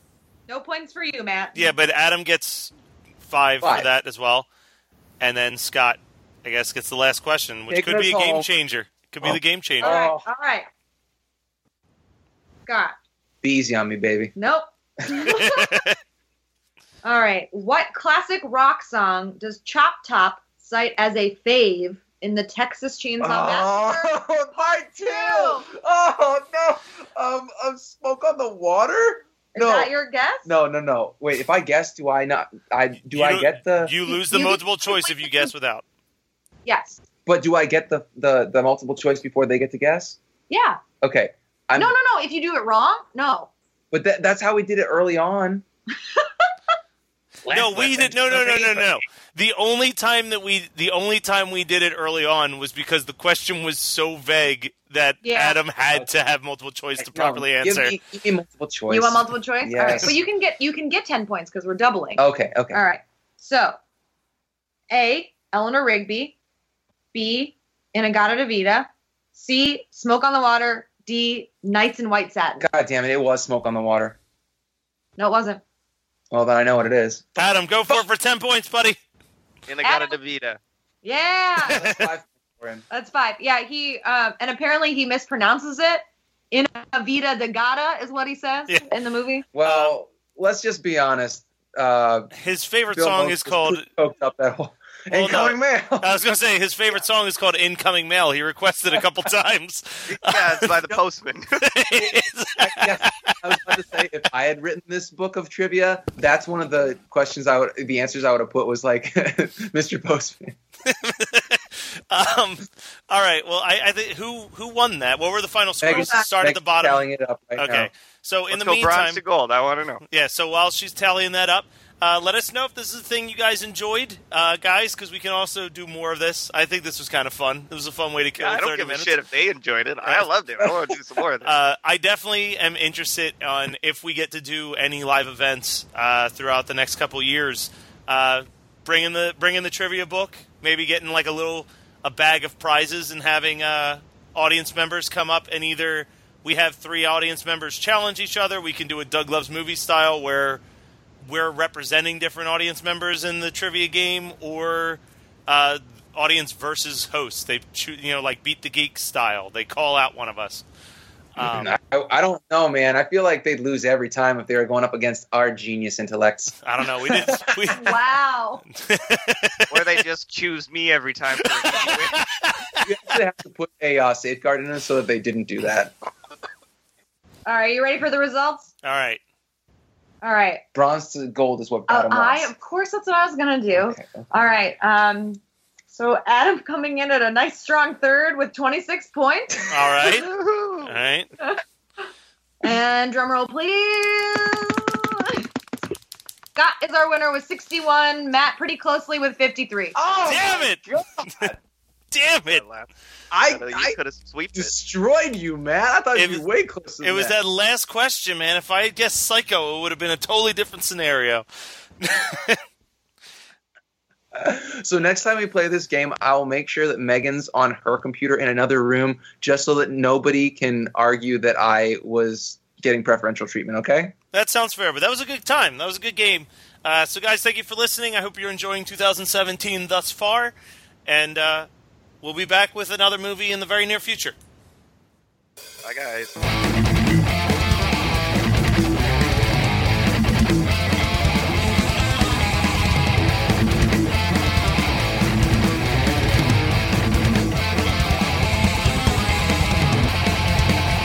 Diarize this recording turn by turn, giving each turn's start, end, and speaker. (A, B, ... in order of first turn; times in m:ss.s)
0:00.5-0:01.7 A
0:01.6-0:02.7 B
0:03.3-0:04.5 B
0:03.6-0:03.9 C
0:05.2-0:10.0 B
0:07.7-0:08.5 C
0:09.2-0:10.3 C
0:09.8-0:10.7 A
0:12.7-0:12.9 A
0:13.4-0:14.3 C
0:14.4-0:15.7 A
0:15.3-0:16.0 B
0:17.0-0:24.2 A
0:23.2-0:29.9 C
0:25.0-0:25.7 A
0:29.5-0:30.5 A
0:30.4-0:33.9 C
0:33.1-0:35.8 B
0:34.1-0:35.5 A
0:36.7-0:37.0 A
0:37.3-0:40.2 C
0:40.5-0:40.8 A
0:41.0-0:42.0 C
0:41.8-0:43.5 A
0:43.9-0:45.6 C
0:46.2-0:46.5 A
0:47.5-0:49.0 C
0:47.5-0:58.0 B
0:55.2-0:55.6 A
0:55.9-0:56.2 C
0:57.0-1:00.1 C
0:58.9-1:03.8 A
1:02.2-1:02.8 C
1:04.9-1:06.4 A
1:07.1-1:12.7 A
1:12.6-1:14.2 C
1:15.2-1:15.6 A
1:16.3-1:17.2 C
1:17.4-1:19.0 B
1:19.7-1:20.6 D
1:19.8-1:20.2 A
1:21.0-1:21.8 A
1:21.6-1:22.8 C
1:21.8-1:22.1 B
1:22.9-1:29.5 A
1:29.6-1:32.3 C
1:29.6-1:29.9 B
1:32.3-1:33.9 B
1:32.9-1:36.1 C
1:35.1-1:40.9 B
1:40.1-1:41.7 D
1:41.6-1:43.4 B
1:42.6-1:50.6 C
1:50.9-1:59.2 B
1:55.8-1:57.9 C
1:55.9-1:56.3 A
1:58.5-2:00.0 D
2:00.1-2:09.2 B
2:08.4-2:11.5 D
2:10.6-2:10.9 C
2:11.4-2:30.6 B
2:31.2-2:40.6 B
2:41.4-2:41.7 B
2:41.4-2:47.8 C
2:46.6-2:47.9 B
2:47.7-2:48.6 A
2:48.7-2:50.0 B
2:49.7-2:52.2 D
2:51.4-2:52.8 B
2:52.8-2:55.9 C
2:57.5-2:58.7 A
2:58.8-2:59.2 B
3:00.2-3:00.6 A
3:00.8-3:02.5 C
3:01.9-3:09.6 A
3:03.7-3:04.3 C
3:09.7-3:10.3 B
3:10.0-3:10.9 D
3:10.8-3:11.3 B
3:12.6-3:15.5 A
3:16.6-3:20.0 A
3:20.0-3:21.6 C
3:20.2-3:20.8 B
3:22.1-3:22.6 B
3:22.5-3:22.9 D
3:23.3-3:24.0 C
3:23.5-3:24.7 D
3:24.5-3:27.4 C
3:26.2-3:26.5 B
3:27.0-3:31.5 B
3:32.0-3:32.6 B
3:34.3-3:44.1 C
3:44.3-3:50.6 B
3:51.1-3:51.7 B
3:52.2-3:54.4 B
3:55.8-3:56.3 D